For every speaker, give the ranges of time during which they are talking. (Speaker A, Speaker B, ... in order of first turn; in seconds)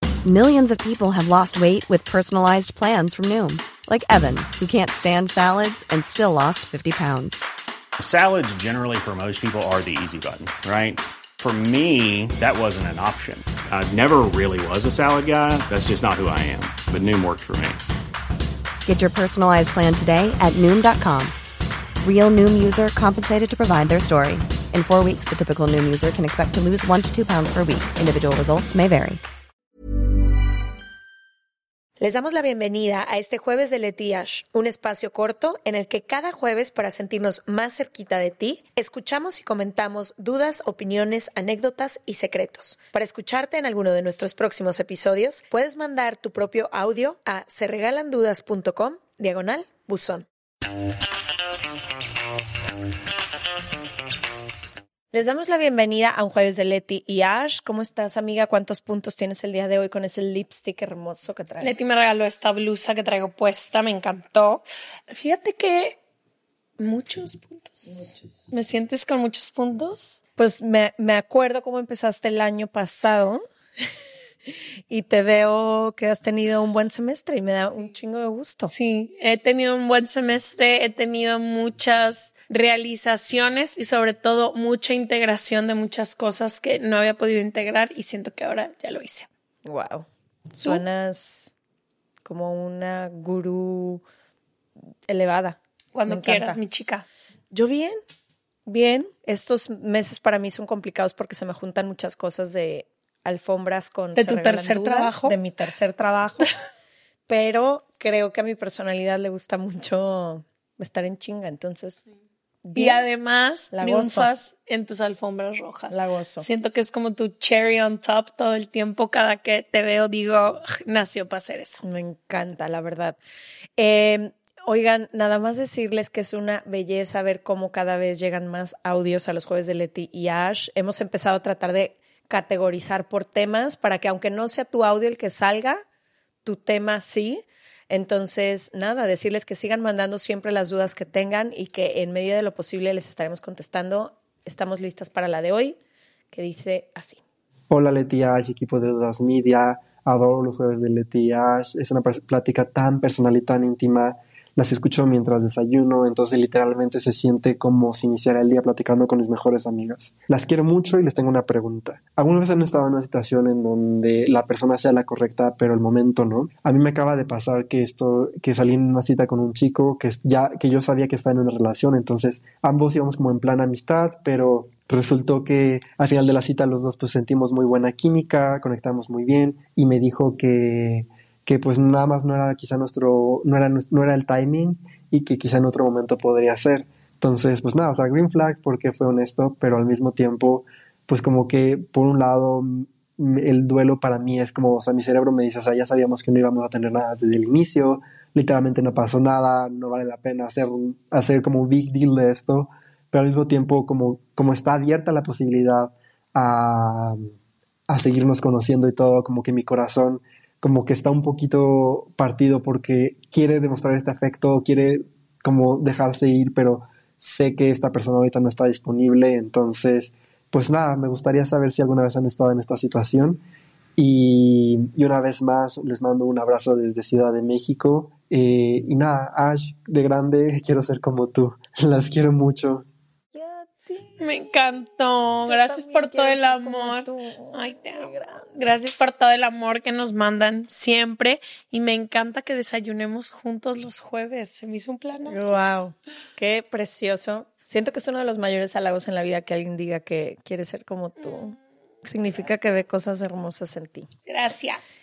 Speaker A: 0.3-7.4, 18.9-21.3, 22.2-29.2
Speaker B: 8.0-17.8
Speaker C: 32.0-50.3, 55.1-61.9, 70.4-73.4, 74.9-78.7, 89.7-91.5, 92.2-94.0, 95.1-96.6, 97.5-98.0, 98.7-106.5, 107.3-112.0, 112.6-113.0, 113.7-114.3, 115.9-116.5, 121.8-123.2, 123.8-135.8, 136.4-145.8, 146.3-147.2, 233.3-234.7, 235.4-238.4, 245.2-254.1
Speaker D: 61.6-66.0, 66.8-70.2, 78.7-89.3, 95.9-97.0, 104.2-105.4, 112.8-121.8, 234.2-245.7, 254.3-254.8
Speaker E: 147.7-207.2, 207.9-223.4, 224.0-232.9